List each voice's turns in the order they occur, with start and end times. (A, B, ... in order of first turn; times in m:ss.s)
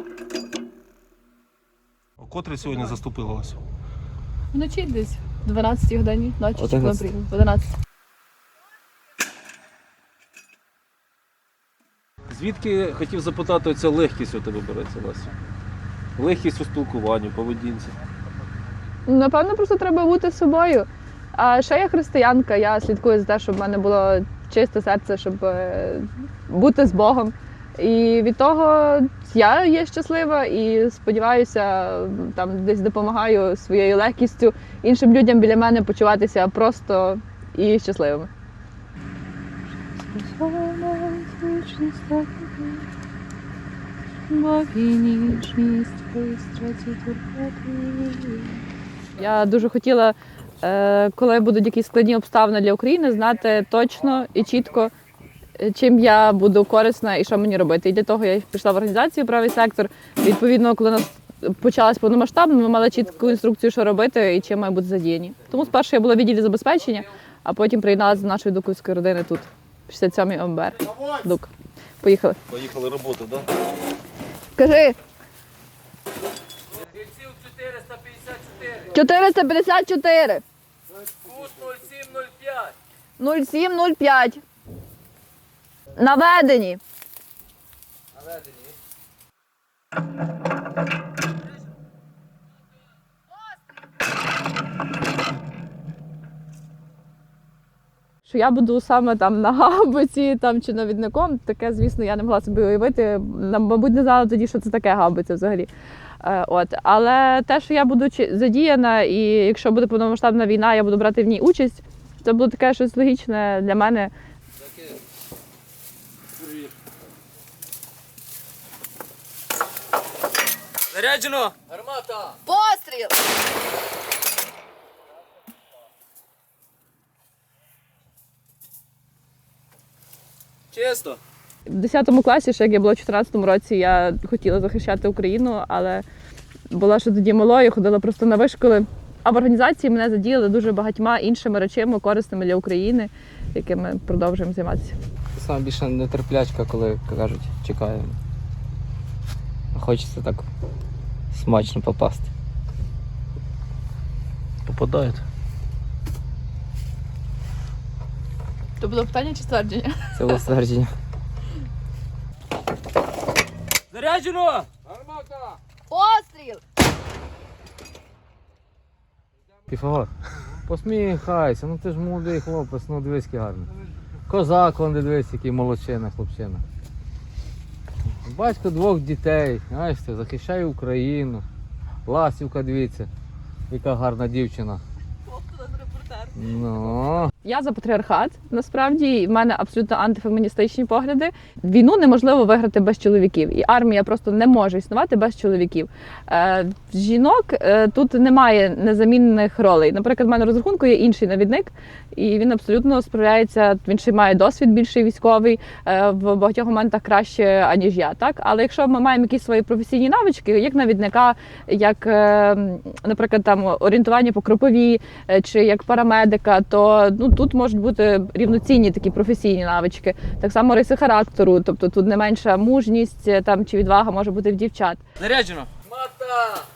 0:02.2-0:03.6 A
0:04.5-0:07.7 B
0:06.6-0:07.0 C
0:12.3-0:15.3 A
0:16.2-0:18.0 A
0:19.1-0:38.3 B
0:40.0-0:42.9 B
0:44.3-0:48.6 B
0:49.2-0:54.9 B
0:55.6-1:11.5 B
1:12.0-1:12.4 B
1:12.5-1:13.5 A
1:14.6-1:15.0 B
1:17.1-1:18.6 D
1:18.6-1:20.4 B
1:21.3-1:22.7 D
1:23.2-1:24.4 B
1:26.0-1:26.8 B
1:38.3-1:45.7 B
1:46.2-1:54.1 B
2:00.9-2:03.1 D
2:10.7-2:11.2 D
2:11.7-2:16.0 B
2:16.7-2:25.0 B
2:25.4-2:28.2 C
2:29.7-2:30.5 C
2:31.3-2:32.3 C
2:34.7-2:35.2 A
2:38.8-2:40.4 B
2:40.2-2:40.9 C
2:43.9-2:45.4 D
2:45.9-2:46.6 B
2:49.7-2:50.1 E
2:50.7-2:53.7 E
2:54.3-2:56.6 E
2:58.2-3:01.4 E
3:02.1-3:03.1 E
3:03.7-3:04.8 E
3:05.4-3:06.3 B
3:06.4-3:07.3 E
3:07.4-3:45.0 B
3:45.2-3:46.7 D